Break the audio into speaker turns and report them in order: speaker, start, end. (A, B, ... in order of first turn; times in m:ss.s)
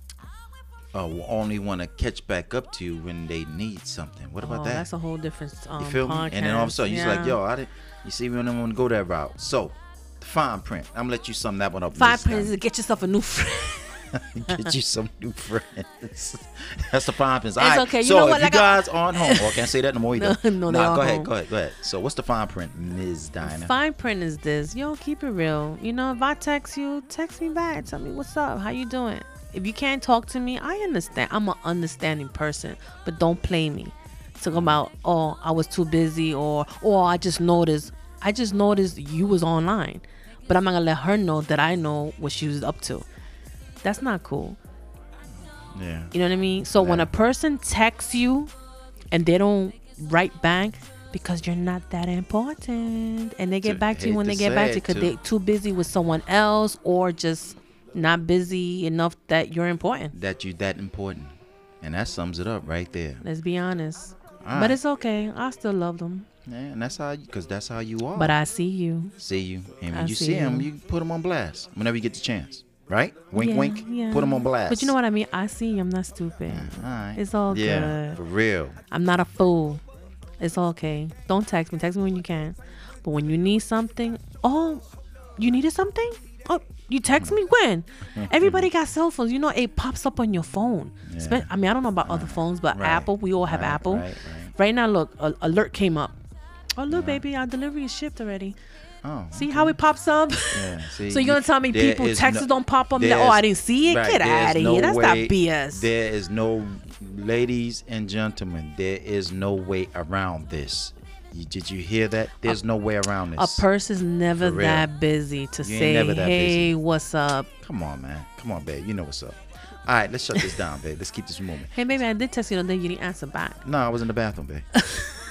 0:00.9-0:04.9 A
0:04.4-0:07.4 B
0:05.8-0:12.5 A
0:11.9-0:14.7 B
0:14.1-0:23.7 A
0:17.6-0:21.3 B
0:23.4-0:43.1 B
0:34.5-0:34.8 A
0:43.8-0:44.6 B
0:45.7-0:46.1 A
0:46.1-0:48.5 B
0:46.8-0:47.1 A
0:49.1-1:00.1 B
0:53.6-0:55.2 A
1:00.1-1:03.2 A
1:03.2-1:06.3 B
1:04.4-1:04.8 A
1:06.5-1:08.4 A
1:08.2-1:09.1 B
1:09.2-1:14.9 A
1:09.9-1:10.7 B
1:13.3-1:18.2 B
1:16.5-1:18.8 A
1:18.9-1:19.8 B
1:20.4-1:24.8 B
1:25.4-1:36.2 B
1:28.2-1:28.7 A
1:31.1-1:31.5 A
1:32.0-1:34.5 A
1:36.8-1:38.6 B
1:36.9-1:37.2 A
1:39.0-1:39.8 A
1:39.3-1:45.9 B
1:40.5-1:53.7 A
1:53.4-1:57.5 B
1:54.4-1:54.9 A
1:55.6-1:56.7 A
1:57.6-2:01.7 A
2:01.7-2:03.6 B
2:03.6-2:04.7 A
2:04.8-2:05.2 B